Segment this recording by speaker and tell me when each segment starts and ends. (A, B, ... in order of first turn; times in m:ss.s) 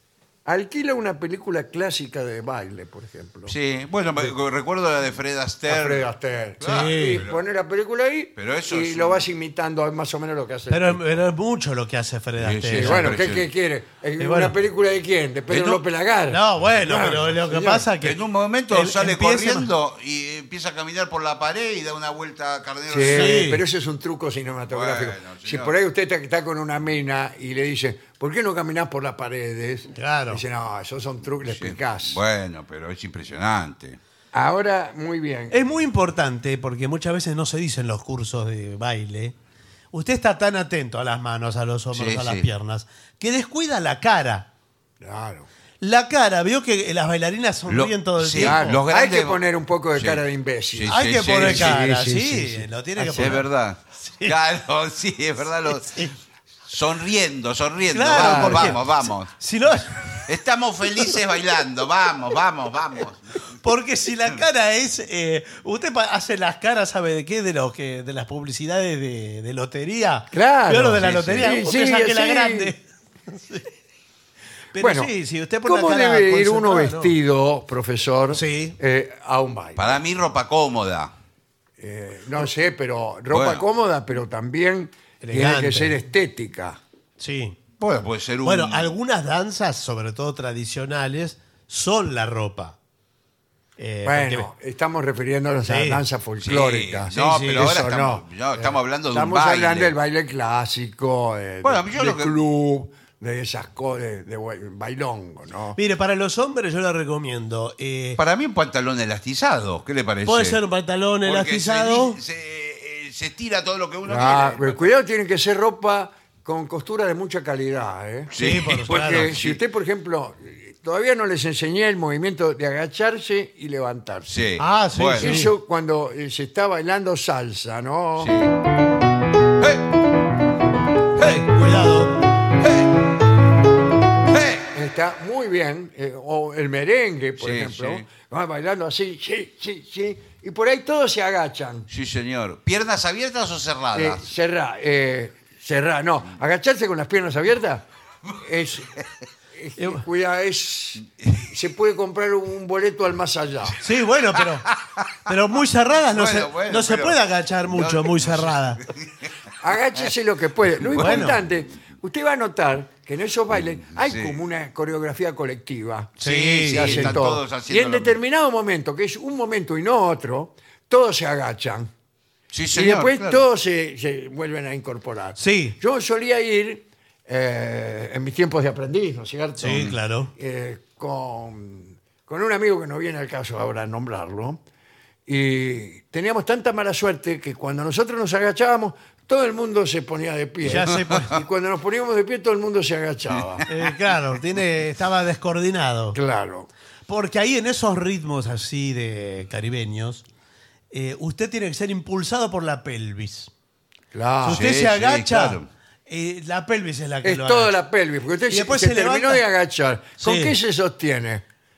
0:00.4-0:03.5 A
0:03.5-0:07.4 B
0:05.7-0:11.0 A
0:06.6-0:07.2 C
0:08.4-0:09.2 B
0:10.7-0:13.1 C
0:12.4-0:13.4 B
0:12.7-0:17.9 A
0:14.2-0:14.5 C
0:15.5-0:15.8 B
0:16.3-0:18.2 C
0:18.0-0:23.4 B
0:18.7-0:19.7 C
0:22.9-0:32.2 A
0:23.0-0:23.6 C
0:24.7-0:25.7 B
0:29.9-0:30.4 C
0:31.4-0:34.0 B
0:34.3-0:35.6 A
0:35.5-0:39.3 C
0:39.9-0:44.5 C
0:41.9-0:42.5 B
0:45.0-0:45.5 A
0:45.8-0:48.8 C
0:47.7-0:49.4 B
0:48.4-0:53.4 A
0:50.0-0:50.2 B
0:50.7-0:51.8 B
0:50.9-0:54.3 C
0:53.1-0:56.0 B
0:55.8-0:56.1 C
0:56.7-1:03.4 B
0:57.9-1:00.2 C
0:58.1-0:58.8 A
1:03.6-1:13.7 C
1:10.3-1:12.7 A
1:11.0-1:11.6 B
1:14.7-1:17.1 C
1:14.8-1:15.1 A
1:15.6-1:20.0 A
1:18.3-1:18.8 C
1:19.8-1:21.1 B
1:21.8-1:26.8 A
1:23.3-1:23.6 B
1:25.2-1:26.0 C
1:27.2-1:27.6 C
1:27.8-1:28.9 B
1:28.4-1:32.8 C
1:33.8-1:34.5 C
1:34.0-1:45.8 A
1:35.7-1:36.0 C
1:36.4-1:39.9 B
1:37.1-1:37.7 C
1:41.6-1:42.3 B
1:45.8-1:48.2 C
1:48.2-1:50.6 B
1:50.2-1:52.2 C
1:51.2-1:54.9 B
1:54.0-1:58.3 A
1:58.3-1:59.6 B
1:58.4-1:59.3 C
1:58.9-2:04.3 A
2:04.3-2:05.4 B
2:04.6-2:05.5 C
2:05.2-2:08.3 A
2:08.2-2:08.5 B
2:11.2-2:11.4 B
2:11.2-2:12.2 C
2:12.6-2:12.9 B
2:14.3-2:14.7 B
2:14.7-2:21.9 A
2:17.4-2:18.0 B
2:21.9-2:24.2 B
2:23.9-2:27.8 A
2:28.4-2:29.0 A
2:29.5-2:33.8 A
2:29.8-2:30.0 C
2:31.2-2:31.5 B
2:33.8-2:34.7 C
2:34.3-2:35.3 B
2:35.2-2:38.8 C
2:36.1-2:39.3 B
2:39.6-2:46.1 A
2:40.8-2:41.4 B
2:41.0-2:41.4 C
2:43.9-2:44.4 B
2:46.2-2:48.2 B
2:46.2-2:47.2 C
2:46.7-2:51.9 A
2:52.5-2:53.4 B
2:52.7-3:04.6 A
2:55.4-2:55.8 C
2:59.6-3:00.3 C
2:59.7-3:00.0 B
3:05.3-3:13.6 A
3:10.6-3:11.4 C
3:13.7-3:16.2 C
3:16.1-3:16.7 A
3:17.1-3:20.2 C
3:20.9-3:23.5 C
3:24.1-3:24.7 A
3:24.4-3:27.7 C
3:24.4-3:25.7 B
3:27.2-3:31.4 A
3:28.5-3:29.4 C
3:30.2-3:30.5 C